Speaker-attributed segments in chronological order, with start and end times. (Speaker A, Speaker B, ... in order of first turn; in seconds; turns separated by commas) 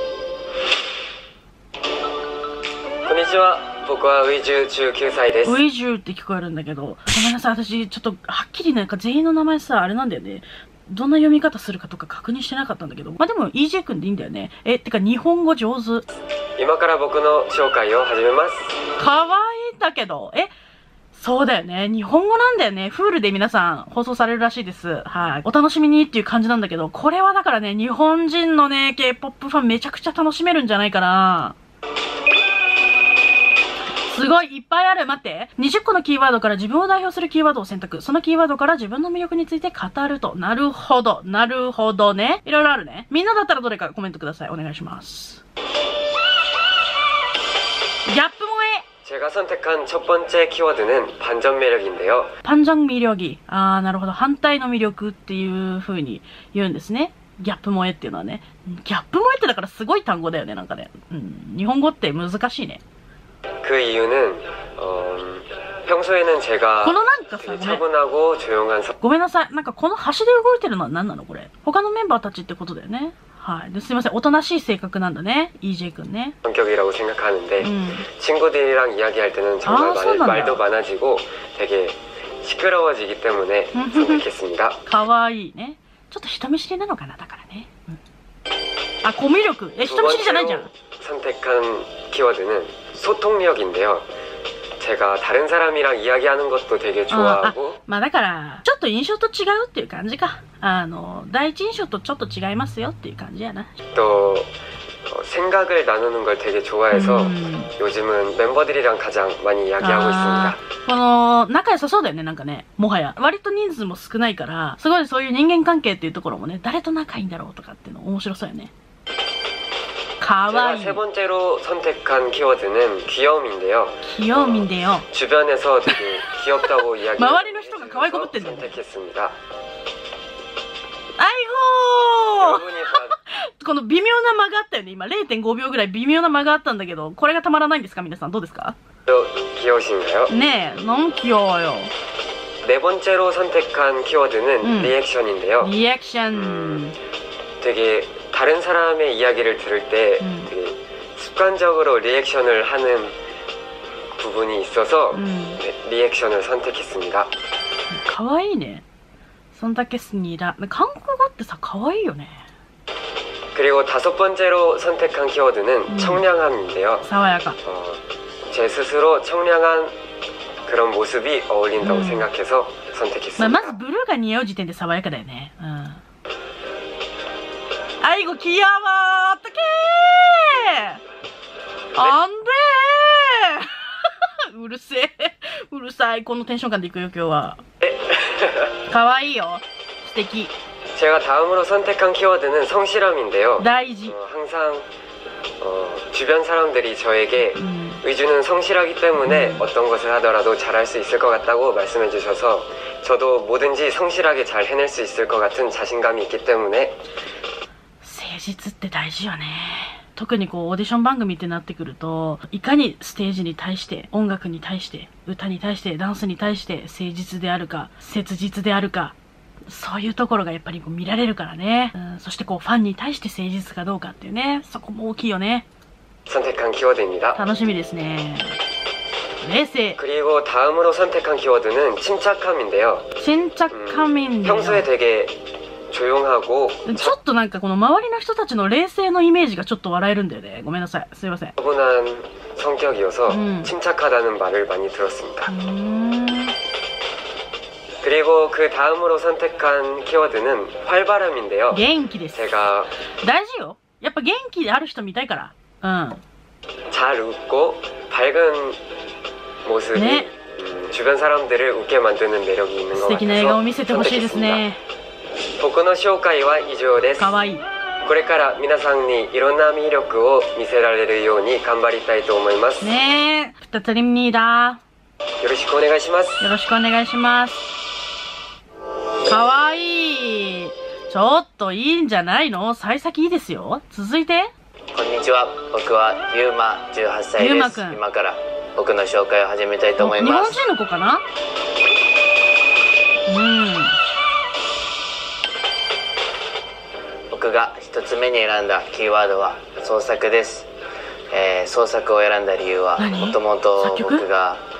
Speaker A: 3.0-5.6, Speaker B: 5.4-16.1, Speaker A: 16.6-18.8, Speaker B: 19.0-20.5, Speaker B: 21.1-31.6, Speaker B: 34.1-45.4, Speaker B: 48.1-48.8, Speaker A: 49.0-52.3, Speaker B: 52.4-62.8, Speaker A: 63.6-68.9, Speaker B: 66.8-67.8, Speaker B: 69.0-76.3, Speaker A: 76.4-84.8, Speaker B: 77.6-78.0, Speaker B: 79.6-80.6, Speaker B: 83.7-84.2, Speaker B: 84.8-88.0, Speaker B: 89.0-90.7, Speaker A: 89.8-94.1, Speaker A: 94.8-97.8, Speaker B: 97.1-103.7, Speaker A: 103.9-104.5, Speaker A: 105.1-110.6, Speaker B: 106.9-107.7, Speaker B: 109.8-118.7, Speaker B: 120.2-121.0, Speaker A: 120.5-129.3, Speaker B: 124.0-125.1, Speaker B: 127.2-128.8, Speaker B: 131.2-138.8, Speaker A: 132.4-133.2, Speaker A: 139.1-140.3, Speaker B: 140.3-141.9, Speaker A: 142.6-145.7, Speaker B: 144.6-144.9, Speaker B: 145.6-146.9, Speaker A: 146.3-146.8, Speaker A: 147.6-153.1, Speaker B: 150.2-150.5, Speaker A: 154.2-157.3, Speaker B: 155.1-155.6, Speaker B: 157.9-158.8, Speaker B: 159.5-162.4, Speaker A: 163.5-167.1, Speaker B: 165.9-166.2, Speaker B: 167.0-167.6, Speaker A: 167.6-169.9, Speaker A: 170.7-173.8, Speaker B: 171.8-172.3, Speaker B: 173.4-176.0, Speaker B: 178.0-181.0, Speaker B: 181.9-187.6, Speaker A: 187.8-188.7, Speaker B: 188.9-190.5, Speaker A: 190.9-194.8, Speaker B: 193.6-194.1, Speaker A: 195.6-207.0, Speaker B: 197.5-198.0, Speaker B: 199.2-199.6, Speaker B: 208.0-219.1, Speaker B: 219.7-225.7, Speaker A: 226.2-227.4, Speaker B: 227.4-228.6, Speaker B: 229.4-230.0, Speaker A: 230.0-233.1, Speaker B: 233.2-234.9, Speaker A: 233.7-235.4, Speaker A: 235.9-237.2, Speaker B: 236.8-241.5, Speaker A: 241.6-245.5, Speaker B: 243.3-243.7, Speaker B: 245.5-246.5, Speaker A: 248.0-251.8, Speaker B: 251.7-252.6, Speaker A: 252.3-252.9, Speaker B: 253.2-256.2, Speaker A: 256.9-258.8, Speaker A: 259.6-264.6, Speaker B: 259.9-260.3, Speaker B: 262.9-264.8, Speaker A: 265.6-267.3, Speaker B: 267.2-267.6, Speaker A: 268.0-272.9, Speaker B: 272.8-274.8, Speaker A: 275.4-276.5, Speaker B: 276.4-277.7, Speaker B: 279.3-284.5, Speaker C: 284.9-290.6, Speaker B: 287.4-288.0, Speaker B: 290.0-291.2, Speaker B: 293.3-294.0, Speaker C: 297.3-300.7, Speaker C: 301.3-304.6, Speaker B: 303.0-304.2